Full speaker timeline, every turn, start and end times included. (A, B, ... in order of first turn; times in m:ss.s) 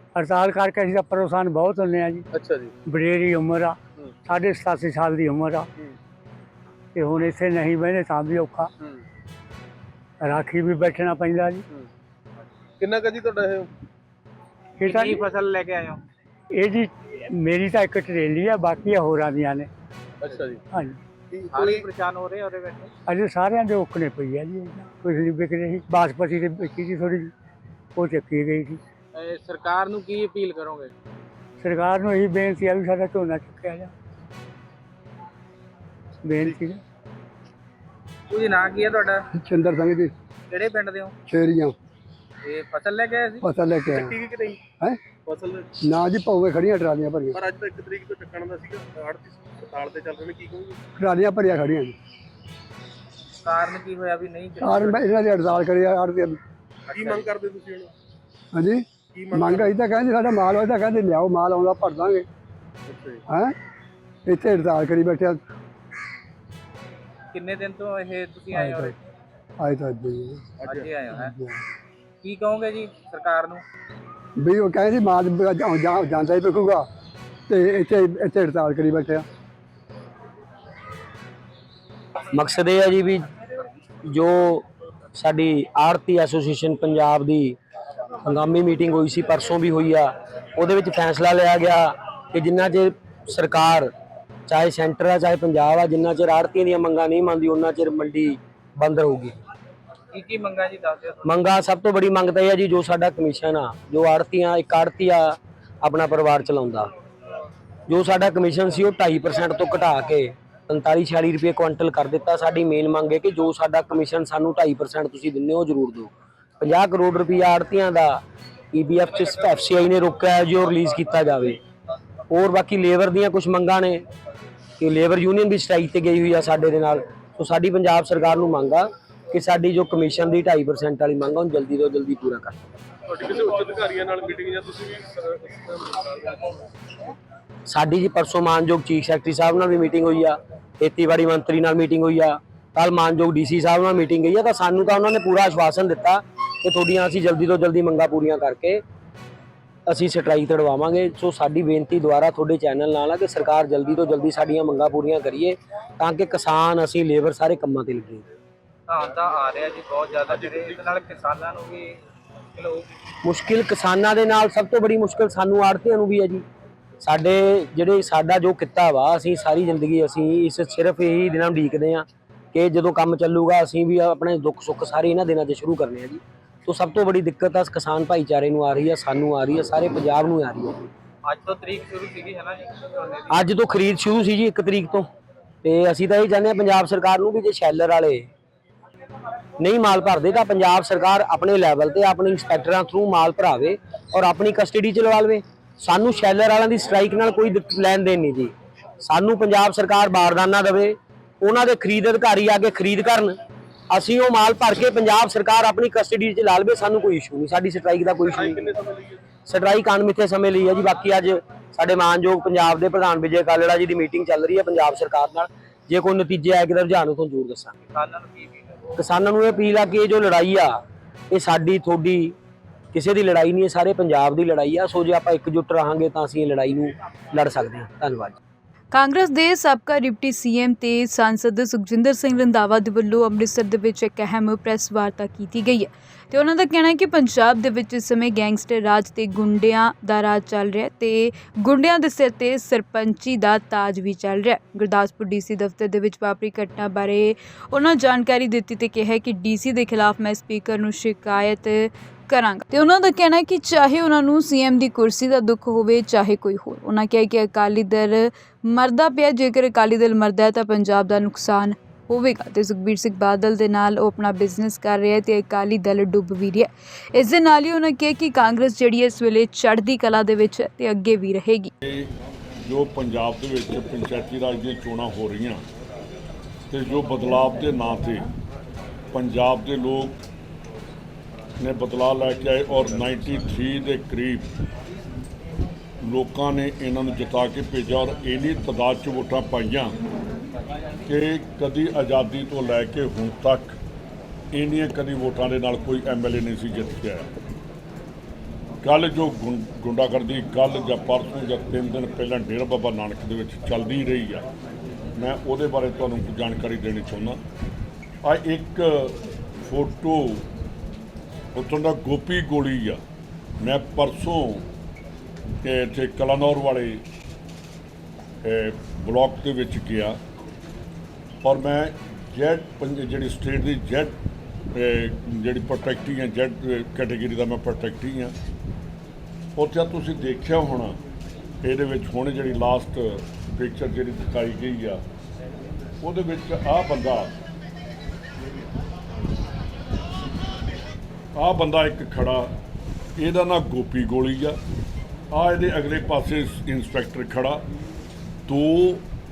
0:00.2-0:02.3 A
0:02.3-0:02.7 B
0:02.9-0:05.7 A
0:06.9-0:08.7 A
0:10.2-0:11.6 A
0:12.8-0:13.7 B
0:14.8-0:15.2 A
0:14.8-0:16.0 C
0:16.5-0:19.7 A
0:20.2-0:20.6 B
0:20.7-0:21.0 A
0:21.3-0:21.8 B
0:21.5-0:22.9 C
0:23.1-0:27.3 A
0:28.0-0:28.8 A
0:29.1-0:30.9 C
0:31.6-0:33.9 A
0:36.2-0:36.8 A
0:38.3-0:39.3 C
0:39.3-0:40.1 D
0:40.5-0:41.1 C
0:41.3-0:41.7 D
0:42.4-0:43.4 C
0:43.4-0:44.1 D
0:43.9-0:44.6 B
0:45.2-0:45.7 B
0:45.8-0:47.4 D
0:47.3-0:50.8 B
0:51.0-0:51.9 D
0:53.4-0:55.1 C
0:54.6-0:56.4 D
0:56.9-0:57.9 B
0:56.9-0:57.3 C
0:58.5-1:02.2 D
0:59.1-0:59.8 B
1:02.8-1:03.2 B
1:03.3-1:03.5 D
1:04.2-1:05.4 D
1:07.3-1:09.0 C
1:08.6-1:08.8 D
1:09.6-1:10.5 D
1:10.6-1:11.3 C
1:10.6-1:10.9 B
1:11.3-1:11.6 D
1:12.2-1:13.6 C
1:14.4-1:16.8 D
1:17.5-1:19.2 D
1:22.3-1:23.3 E
1:24.1-1:27.6 E
1:28.2-1:33.9 E
1:34.5-1:39.3 E
1:40.1-1:41.2 C
1:41.2-1:46.9 E
1:47.9-1:58.2 E
1:58.7-2:01.6 E
2:02.3-2:04.0 E
2:04.8-2:12.6 E
2:13.1-2:16.6 B
2:17.7-2:28.8 E
2:29.9-2:38.2 E
2:38.9-2:42.0 C
2:40.3-2:40.9 B
2:42.5-2:42.9 C
2:43.2-2:46.4 E
2:47.0-3:00.8 E
3:01.2-3:03.4 C
3:03.3-3:05.1 E
3:05.6-3:08.3 E
3:09.6-3:23.3 E
3:23.9-3:28.6 E
3:28.2-3:29.2 B
3:29.4-3:37.7 E
3:37.8-3:38.9 C
3:39.0-3:40.8 E
3:41.3-3:42.4 E
3:42.9-3:48.4 E
3:48.9-4:31.7 F
4:31.8-4:35.6 G
4:36.7-4:38.3 G
4:39.1-4:40.2 G
4:41.6-4:44.4 G
4:46.0-4:50.0 G
4:51.1-4:53.8 G
4:54.5-4:57.3 G
4:58.8-5:04.5 G
5:05.2-5:07.4 G
5:08.2-5:10.5 G
5:11.5-5:13.0 G
5:13.6-5:14.7 G
5:15.6-5:17.0 G
5:18.4-5:20.2 G
5:21.4-5:24.2 G
5:24.7-5:28.3 G
5:29.6-5:31.0 G
5:31.6-5:35.0 G
5:36.0-5:37.3 G
5:41.3-5:42.5 G
5:43.2-5:44.6 G
5:45.3-5:47.6 G
5:48.4-5:49.0 G